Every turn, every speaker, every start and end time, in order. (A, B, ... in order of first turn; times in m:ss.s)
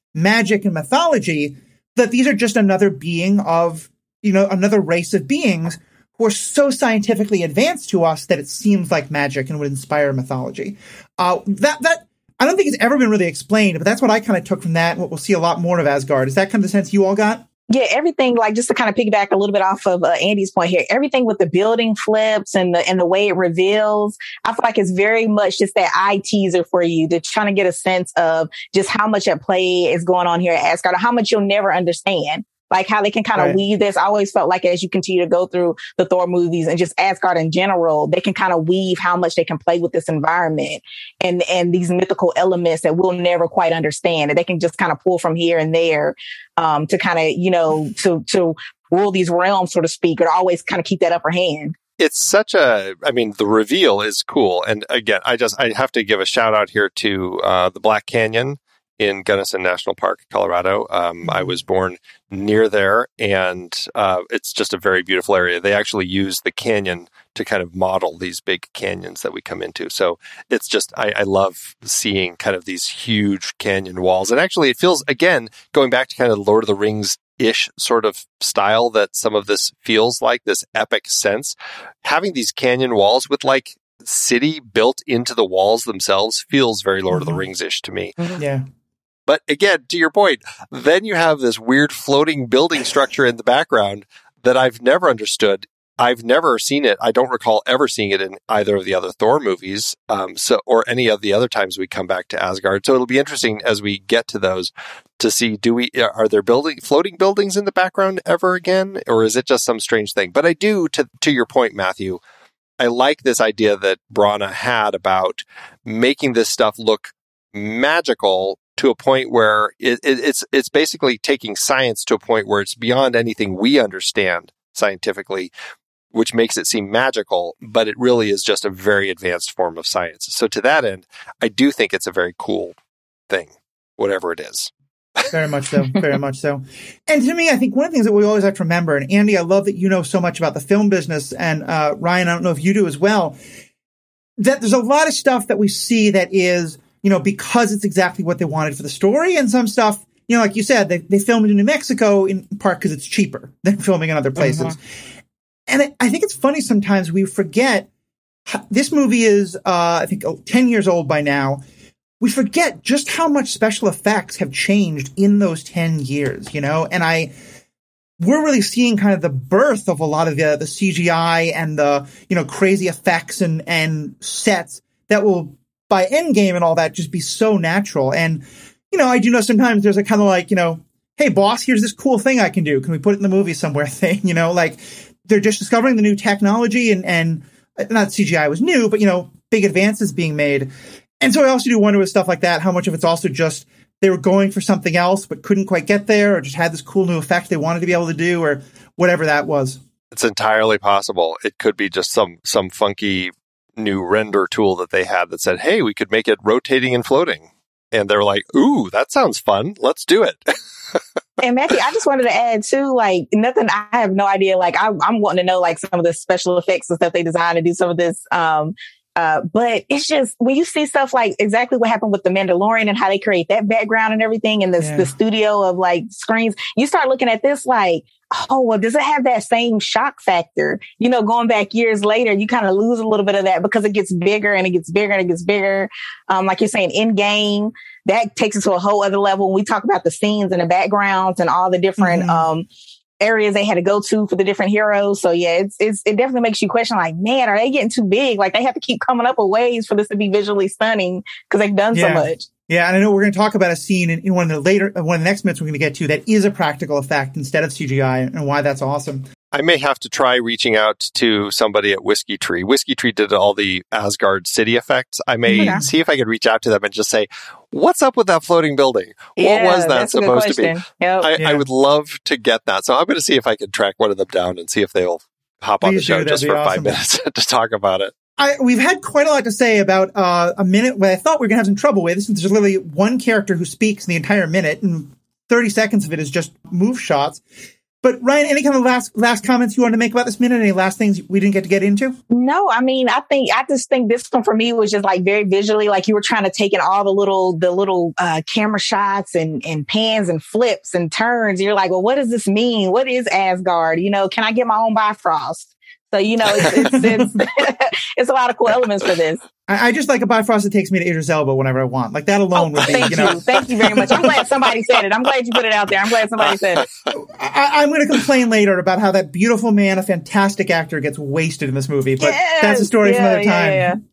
0:00.1-0:17.4 A
0:17.7-0:51.8 B
0:52.0-1:28.2 C
1:01.2-1:01.6 A
1:27.1-1:27.5 A
1:28.4-1:28.6 A
1:29.3-1:52.2 C
1:52.8-2:05.5 C
2:06.1-2:12.8 C
2:13.3-2:15.3 C
2:15.3-2:23.4 A
2:24.4-2:34.8 A
2:35.7-2:37.9 A
2:38.5-2:41.6 A
2:42.2-2:47.3 A
2:48.2-3:10.7 A
3:11.2-3:19.8 A
3:20.1-3:30.4 C
3:31.4-4:02.7 B
3:44.8-3:45.1 A
4:02.0-4:02.4 A
4:03.2-4:12.5 B
4:11.9-4:19.3 A
4:19.5-4:38.1 C
4:25.5-4:25.9 A
4:25.6-4:25.8 B
4:29.4-4:31.3 B
4:31.4-4:31.6 A
4:35.8-4:37.0 A
4:38.4-4:47.4 A
4:48.0-4:52.2 A
4:52.3-5:09.4 B
5:06.6-5:07.3 A
5:09.7-5:14.5 A
5:12.6-5:16.8 B
5:12.8-5:13.4 C
5:14.0-5:14.3 C
5:16.4-5:17.0 C
5:17.1-5:24.0 A
5:22.2-5:24.0 B